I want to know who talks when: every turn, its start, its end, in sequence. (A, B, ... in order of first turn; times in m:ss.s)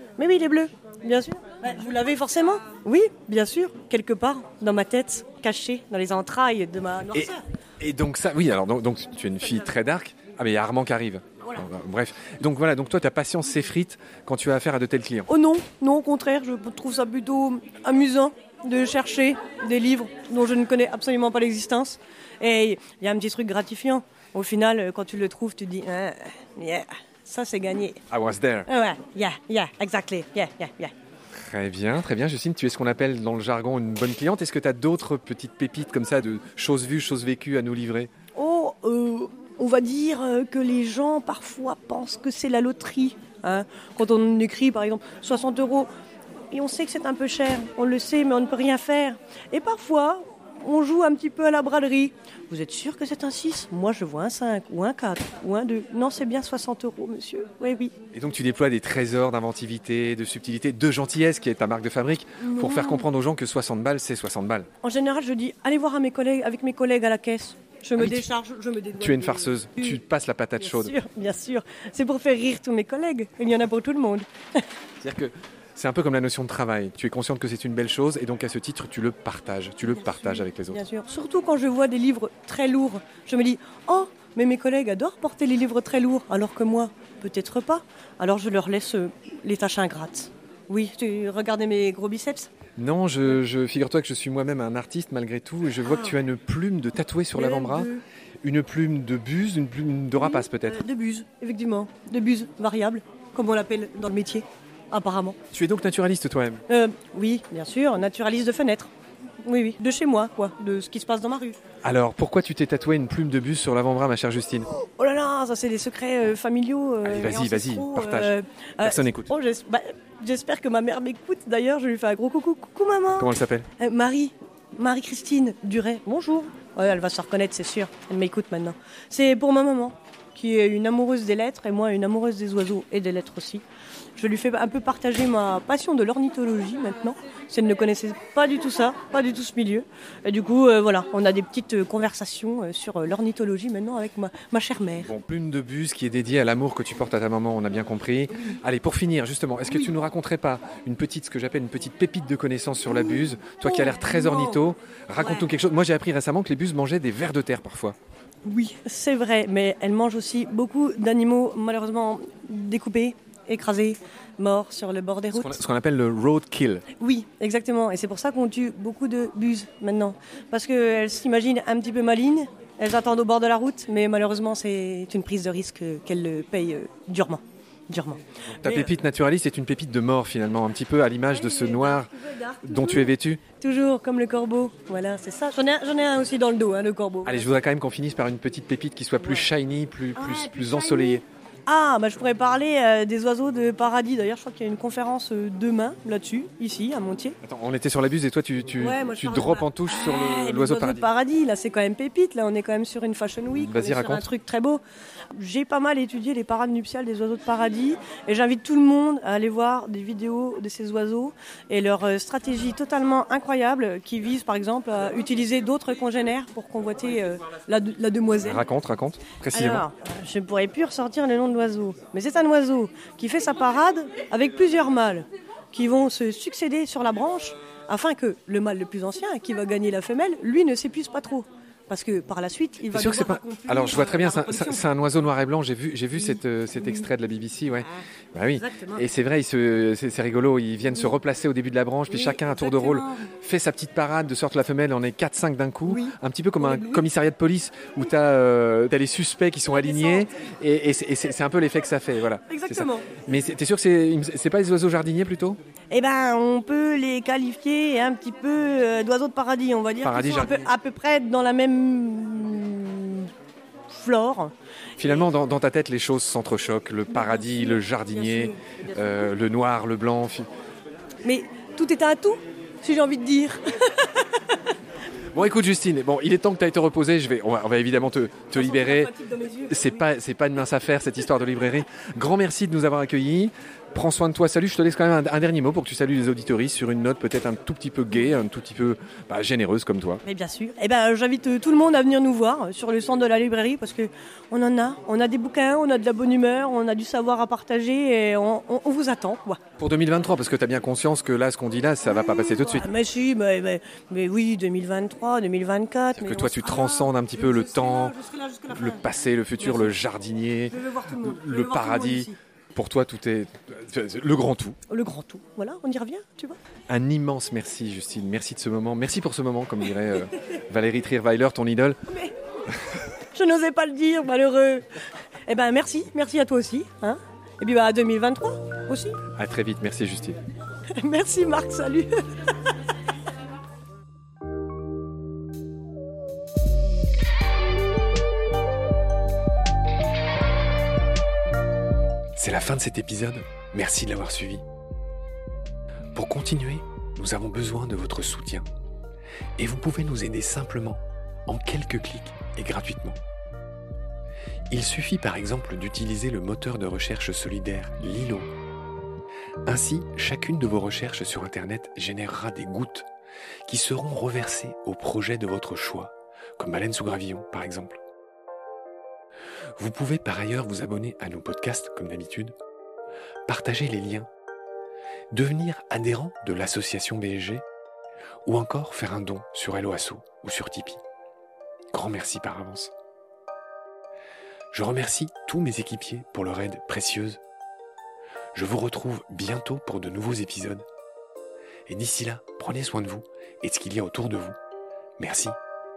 0:00.2-0:07.4 A
0:07.1-0:15.3 B
0:15.3-0:28.0 A
0:28.1-0:28.7 B
0:28.7-0:30.9 A
0:31.4-0:38.1 B
0:38.4-0:45.9 A
0:46.5-0:57.9 A
0:58.1-1:04.7 B
1:02.4-1:03.1 A
1:04.8-1:10.0 A
1:08.0-1:08.2 B
1:09.0-1:11.0 B
1:10.6-1:14.6 A
1:15.0-1:20.8 B
1:19.9-1:32.5 A
1:32.8-1:40.8 B
1:35.8-1:36.2 A
1:37.3-1:38.0 A
1:40.2-1:45.4 A
1:45.5-1:46.6 B
1:46.7-1:48.9 A
1:49.4-1:51.6 A
1:51.8-1:54.7 B
1:54.7-2:13.6 A
1:57.0-1:59.3 B
2:03.2-2:03.7 B
2:14.2-2:25.1 A
2:25.0-2:38.0 B
2:29.7-2:29.9 A
2:32.9-2:34.7 A
2:35.2-2:35.5 A
2:38.4-2:45.6 A
2:45.3-2:46.8 B
2:47.0-2:58.9 A
2:58.6-3:02.1 B
3:01.3-3:07.5 A
3:02.6-3:03.4 B
3:07.2-3:11.2 B
3:10.2-3:17.4 A
3:17.4-3:21.1 B
3:18.8-3:24.8 A
3:23.5-3:24.2 B
3:25.3-3:38.7 A
3:38.4-3:39.8 B
3:39.5-3:54.8 A
3:52.9-4:15.6 B
3:56.2-3:57.1 A
3:58.6-3:59.0 A
4:02.1-4:03.3 A
4:05.9-4:07.1 A
4:09.7-4:10.3 A
4:12.5-4:13.2 A
4:15.9-4:23.3 A
4:20.0-4:20.6 B
4:23.9-4:24.5 A
4:25.0-4:30.5 B
4:27.1-4:29.3 A
4:31.2-4:34.4 A
4:35.3-4:39.1 B
4:38.5-4:40.0 A
4:39.7-4:50.2 B
4:50.2-4:59.6 A
4:59.8-5:02.9 B
5:02.0-5:09.1 A
5:06.2-5:08.2 B
5:08.7-5:14.8 B
5:09.6-5:10.0 A
5:10.7-5:12.4 A
5:14.9-5:16.6 A
5:16.9-5:22.0 B
5:22.1-5:22.4 A
5:23.3-5:24.9 A
5:25.5-5:29.2 A
5:29.3-5:30.4 B
5:31.0-5:32.6 A
5:42.4-5:44.6 B
5:46.1-5:48.7 B
5:49.6-5:53.2 B
5:54.7-5:58.5 B
5:59.6-6:03.1 B
6:03.7-6:08.0 B
6:09.8-6:12.5 B
6:13.5-6:14.3 B
6:15.3-6:17.6 B
6:18.4-6:21.0 B
6:21.9-6:22.9 B
6:24.7-6:27.4 B
6:28.5-6:30.8 B
6:31.9-6:34.6 B
6:35.2-6:35.6 B